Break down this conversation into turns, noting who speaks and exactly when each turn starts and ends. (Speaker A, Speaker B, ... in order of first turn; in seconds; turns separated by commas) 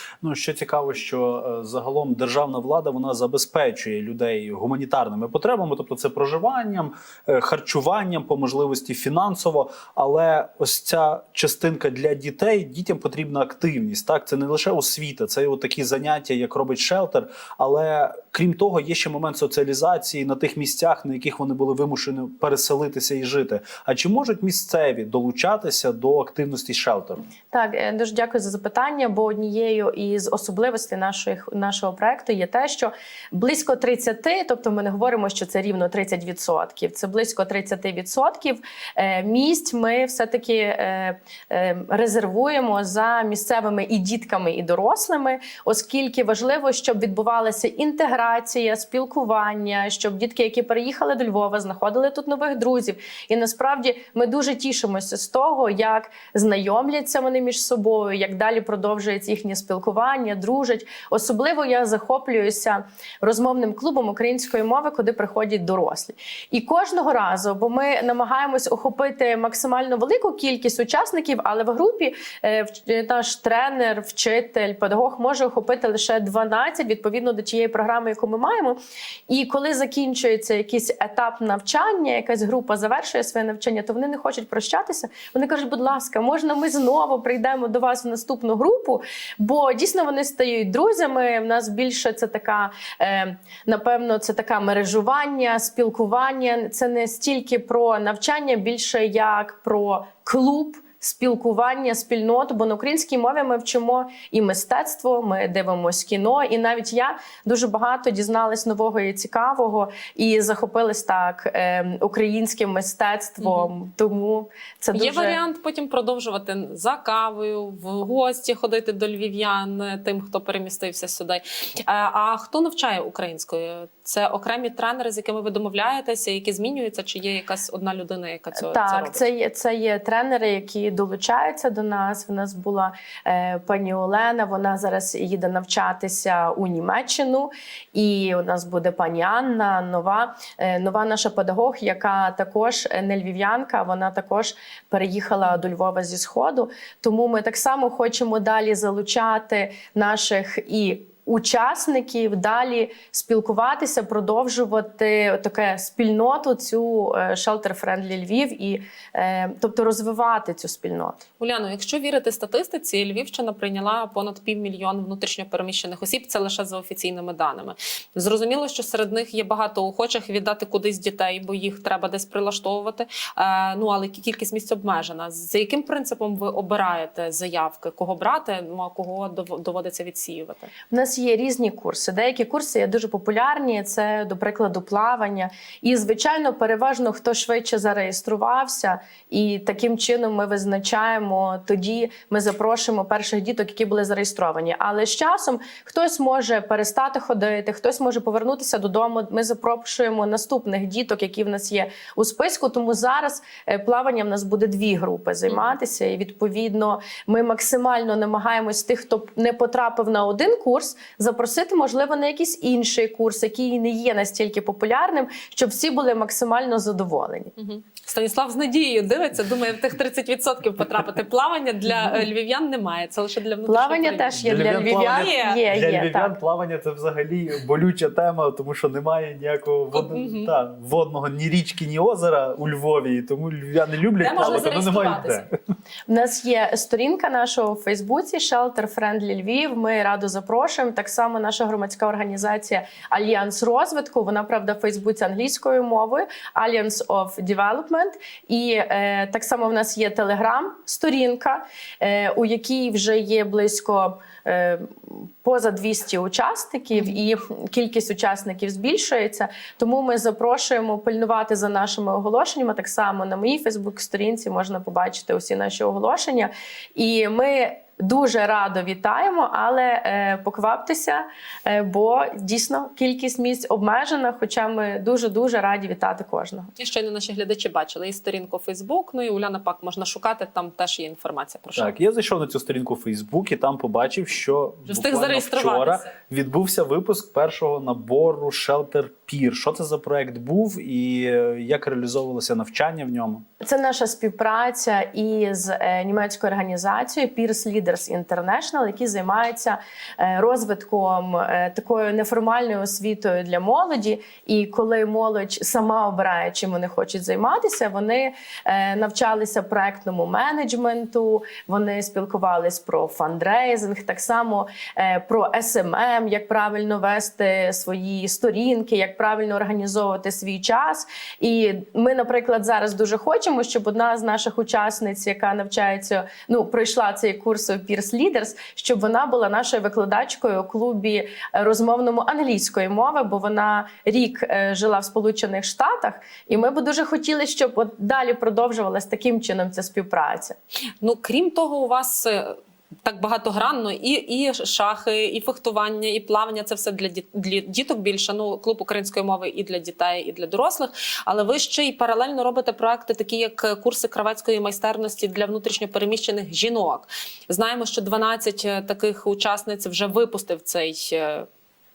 Speaker A: 0.2-27.2, Speaker B: 27.5-78.8, Speaker B: 79.3-115.4, Speaker C: 113.4-113.7, Speaker C: 114.9-129.2, Speaker B: 128.6-161.2, Speaker C: 161.4-180.7, Speaker B: 180.9-217.5, Speaker C: 205.5-205.7, Speaker C: 217.6-225.6, Speaker B: 221.9-222.2, Speaker B: 223.7-226.3, Speaker A: 224.3-235.5, Speaker C: 229.9-230.5, Speaker C: 234.2-235.4, Speaker B: 236.1-276.7, Speaker C: 276.8-281.9, Speaker A: 281.8-293.4, Speaker C: 284.9-286.1, Speaker B: 293.6-340.6, Speaker C: 341.0-361.5